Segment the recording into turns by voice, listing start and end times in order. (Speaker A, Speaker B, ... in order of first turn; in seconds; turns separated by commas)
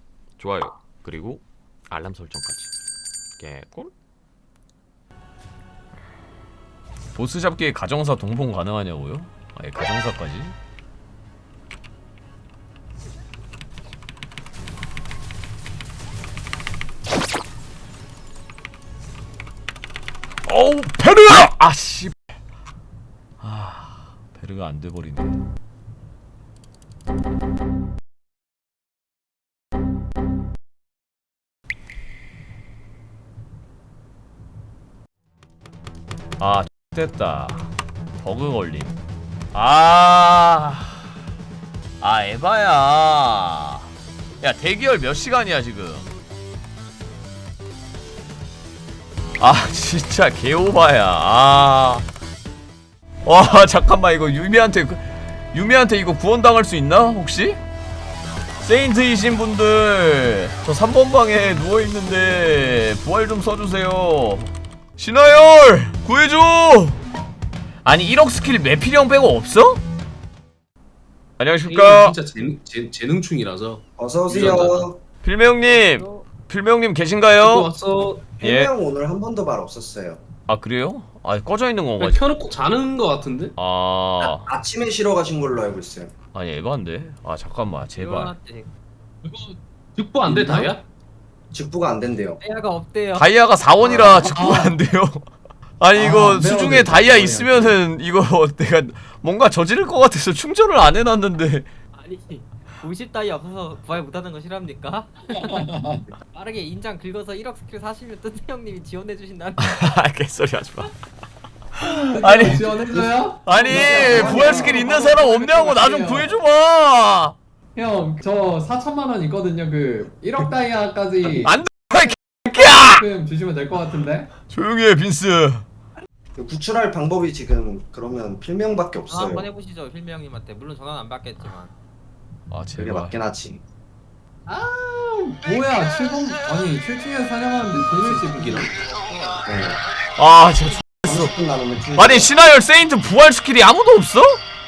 Speaker A: 0.4-2.7, Speaker A: 3.4-3.9, Speaker A: 7.2-10.5, Speaker A: 20.4-22.2, Speaker A: 23.4-25.4, Speaker A: 36.4-37.7, Speaker A: 38.2-38.9, Speaker A: 39.5-41.0, Speaker A: 42.0-43.9, Speaker A: 44.4-46.1, Speaker A: 49.4-52.0, Speaker A: 53.2-57.6, Speaker A: 58.6-67.0, Speaker A: 67.8-69.8, Speaker A: 71.4-72.2, Speaker B: 71.6-74.9, Speaker C: 74.0-75.0, Speaker A: 75.2-77.7, Speaker D: 75.6-76.2, Speaker B: 77.4-78.3, Speaker C: 78.4-80.2, Speaker A: 78.4-78.7, Speaker A: 80.5-82.2, Speaker B: 82.0-83.5, Speaker A: 83.5-84.5, Speaker C: 84.2-86.1, Speaker A: 86.3-88.3, Speaker D: 88.0-88.7, Speaker B: 89.2-90.8, Speaker E: 90.2-90.7, Speaker C: 91.5-92.4, Speaker D: 92.4-93.3, Speaker A: 93.1-95.3, Speaker C: 93.8-94.1, Speaker E: 94.0-94.8, Speaker A: 95.8-101.7, Speaker E: 95.9-97.8, Speaker D: 101.9-105.7, Speaker E: 105.5-106.0, Speaker D: 106.3-109.8, Speaker A: 109.6-110.9, Speaker A: 111.8-112.9, Speaker E: 112.1-116.4, Speaker A: 113.4-117.4, Speaker C: 113.6-114.8, Speaker E: 117.7-121.6, Speaker A: 121.2-123.0, Speaker E: 122.5-124.3, Speaker A: 124.5-125.6, Speaker C: 126.4-129.5, Speaker D: 129.1-131.7, Speaker A: 132.5-133.2, Speaker C: 132.8-133.6, Speaker E: 134.5-138.8, Speaker B: 137.8-138.7, Speaker D: 138.8-139.5, Speaker C: 139.5-139.8, Speaker A: 140.2-141.4, Speaker C: 141.1-142.4, Speaker A: 142.0-144.4